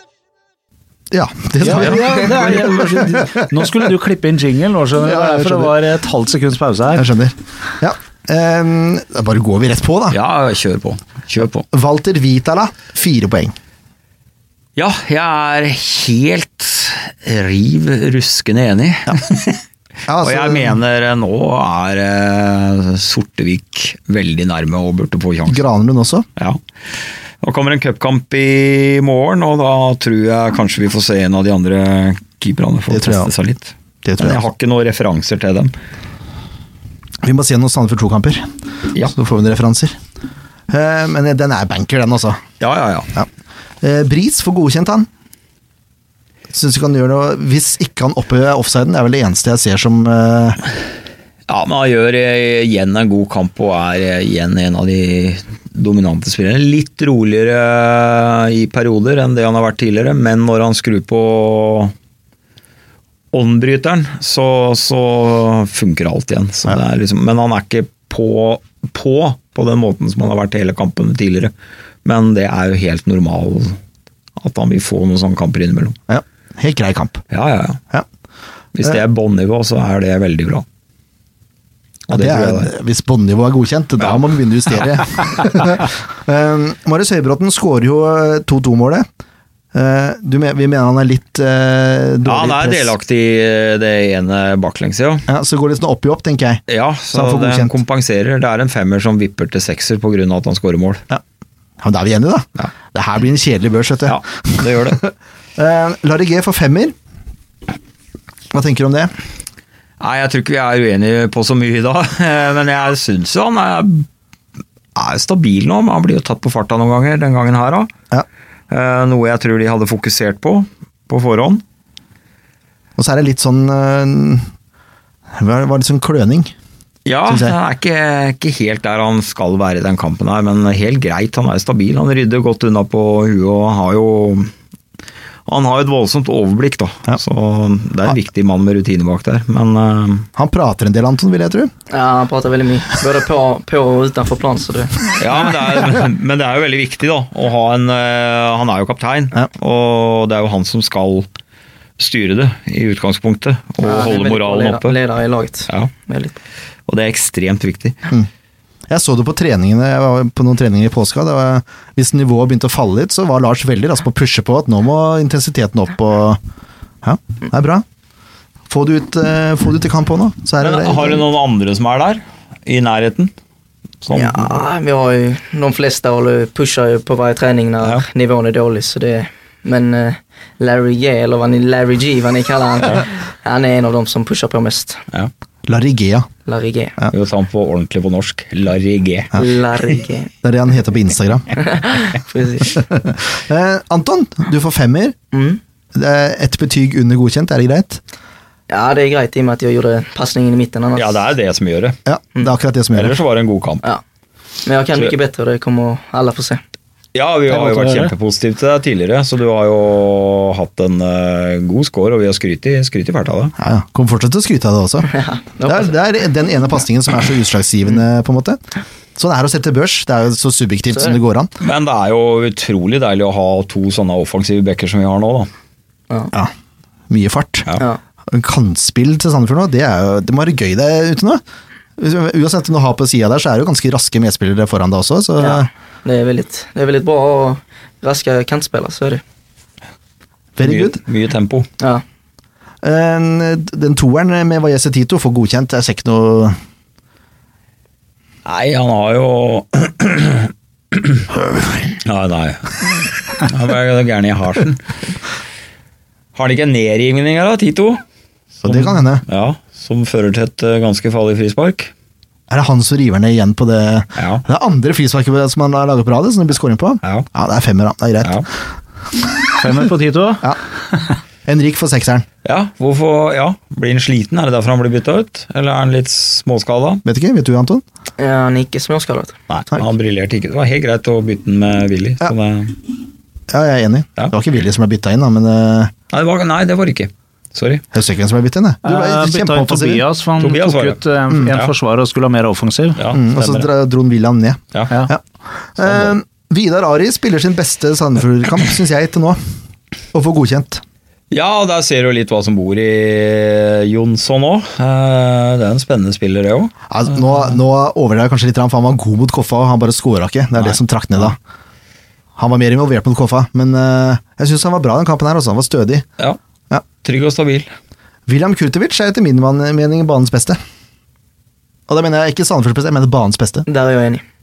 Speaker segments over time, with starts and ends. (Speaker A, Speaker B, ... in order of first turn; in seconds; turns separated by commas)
Speaker A: 1.1-3.9, Speaker B: 1.6-7.1, Speaker A: 5.0-5.7, Speaker A: 6.9-10.2, Speaker C: 10.1-11.7, Speaker A: 11.7-13.5, Speaker C: 14.8-19.6, Speaker A: 20.1-20.8, Speaker C: 20.2-25.6, Speaker A: 25.5-26.3, Speaker C: 27.4-35.7, Speaker A: 32.9-33.3, Speaker A: 34.0-34.4, Speaker A: 37.2-40.0, Speaker A: 40.7-42.4, Speaker C: 42.6-43.1, Speaker A: 43.8-45.1, Speaker A: 46.5-50.6, Speaker C: 51.5-61.9, Speaker C: 63.3-71.5, Speaker C: 72.0-73.8, Speaker C: 74.4-76.0, Speaker A: 76.1-77.2, Speaker C: 77.3-77.8, Speaker C: 78.7-80.6, Speaker C: 82.1-82.7, Speaker A: 82.1-89.1, Speaker A: 89.7-92.9, Speaker C: 92.2-95.3, Speaker A: 95.3-97.7, Speaker C: 96.7-101.0, Speaker A: 101.8-106.9, Speaker C: 104.0-105.0, Speaker A: 108.5-109.1, Speaker C: 110.0-114.1, Speaker C: 114.9-117.9, Speaker C: 118.7-121.6, Speaker A: 123.0-124.5, Speaker A: 125.3-126.5, Speaker C: 127.0-134.5, Speaker A: 127.2-127.5, Speaker C: 135.5-140.3, Speaker A: 140.3-141.7, Speaker D: 141.9-145.0, Speaker C: 145.2-151.3, Speaker C: 152.0-154.9, Speaker D: 153.8-156.3, Speaker C: 156.9-158.0, Speaker A: 158.9-166.4, Speaker A: 167.0-167.8, Speaker A: 168.7-171.2, Speaker C: 170.6-173.3, Speaker C: 174.0-174.6, Speaker D: 174.1-185.0, Speaker A: 185.7-186.3, Speaker D: 186.4-186.9, Speaker C: 187.1-189.4, Speaker D: 189.3-190.3, Speaker A: 190.4-191.5, Speaker D: 191.6-192.8, Speaker A: 192.8-195.1, Speaker D: 195.3-195.6, Speaker A: 195.9-198.0, Speaker D: 198.7-201.2, Speaker C: 200.9-202.0, Speaker A: 202.1-203.2, Speaker C: 202.9-203.8, Speaker D: 204.6-206.6, Speaker C: 207.1-213.5, Speaker B: 207.5-208.1, Speaker A: 213.6-215.1, Speaker D: 215.1-215.9, Speaker A: 215.6-218.6, Speaker A: 219.2-221.5, Speaker C: 221.6-225.5, Speaker A: 227.1-227.7, Speaker A: 228.3-231.4, Speaker A: 232.0-235.7, Speaker D: 235.4-239.2, Speaker A: 240.6-241.0, Speaker C: 240.6-241.7, Speaker A: 242.8-246.6, Speaker C: 248.4-251.3, Speaker C: 251.9-254.9, Speaker C: 256.3-258.0, Speaker C: 258.6-261.9, Speaker A: 258.6-259.2, Speaker A: 262.5-268.4, Speaker C: 264.1-264.4, Speaker C: 268.2-268.5, Speaker B: 269.6-270.5, Speaker A: 271.4-272.2, Speaker C: 272.4-277.0, Speaker A: 277.0-277.8, Speaker D: 278.2-279.4, Speaker C: 279.5-282.8, Speaker A: 283.5-285.9, Speaker C: 286.1-287.8, Speaker A: 287.9-290.0, Speaker B: 288.8-293.0, Speaker C: 290.4-291.7, Speaker C: 292.9-293.7, Speaker A: 293.1-295.2, Speaker A: 295.8-299.4, Speaker C: 295.8-296.1, Speaker A: 300.1-300.8, Speaker C: 301.3-306.7, Speaker A: 306.9-311.4, Speaker A: 312.4-316.1, Speaker C: 317.0-317.7, Speaker A: 318.3-320.6, Speaker A: 321.9-323.6, Speaker D: 323.7-324.2